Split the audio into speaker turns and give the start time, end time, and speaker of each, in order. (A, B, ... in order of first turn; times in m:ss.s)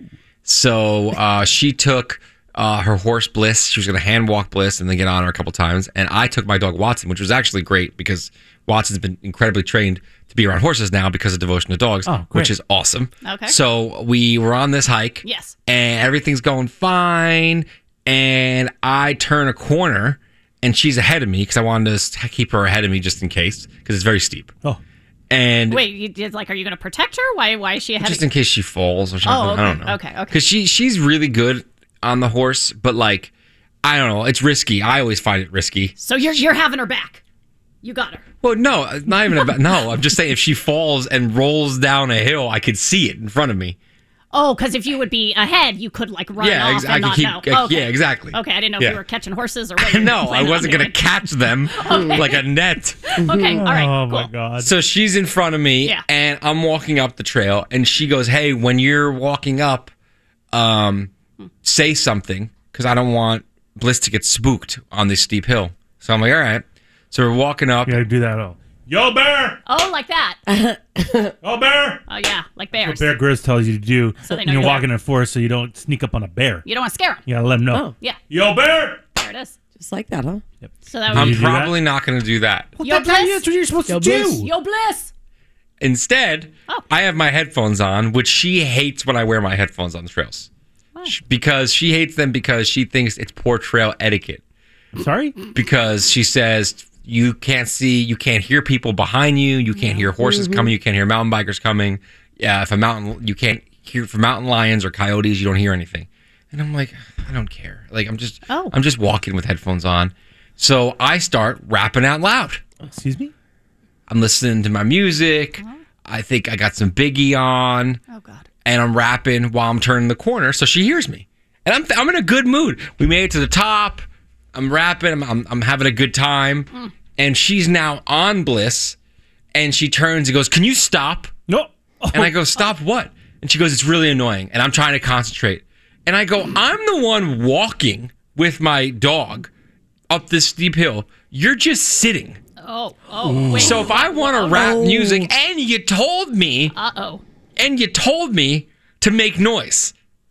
0:00.4-0:24.5 A
0:12.0-0:12.5 B
0:13.2-0:13.5 C
0:15.2-0:15.5 C
0:25.3-0:25.8 A
0:25.7-0:28.2 C
0:28.0-0:33.3 A
0:29.2-0:30.4 C
0:33.8-0:36.4 A
0:36.0-0:37.2 C
0:37.8-0:38.2 C
0:38.4-0:43.8 A
0:44.3-0:51.0 C
0:46.4-0:49.0 A
0:49.8-0:53.1 A
0:51.7-0:52.4 C
0:51.9-0:52.2 D
0:53.1-0:54.3 C
0:53.2-0:53.6 D
0:53.4-0:54.7 B
0:54.6-0:59.9 A
1:00.5-1:01.1 A
1:01.6-1:08.0 A
1:07.8-1:09.6 B
1:09.7-1:10.4 C
1:10.5-1:11.3 D
1:11.4-1:12.0 B
1:12.1-1:13.2 C
1:12.7-1:16.6 B
1:14.2-1:14.9 C
1:16.6-1:17.2 C
1:17.2-1:19.0 B
1:19.2-1:19.5 C
1:19.8-1:20.4 D
1:20.6-1:21.8 B
1:20.8-1:21.5 C
1:21.1-1:22.7 A
1:22.8-1:24.5 B
1:22.8-1:23.4 C
1:23.9-1:24.4 D
1:24.2-1:25.1 C
1:25.8-1:30.5 A
1:31.1-1:34.4 A
1:34.9-1:35.4 B
1:35.5-1:52.6 A
1:39.8-1:40.1 C
1:40.2-1:40.7 D
1:48.5-1:48.7 C
1:52.9-1:53.3 B
1:54.1-1:58.0 A
1:58.1-1:58.4 C
1:58.6-2:09.0 A
2:09.5-2:11.3 A
2:11.5-2:12.3 B
2:12.1-2:19.5 A
2:20.1-2:22.4 A
2:22.6-2:24.7 C
2:23.3-2:23.7 D
2:23.6-2:26.7 A
2:24.5-2:25.3 D
2:26.7-2:27.2 C
2:27.6-2:29.9 A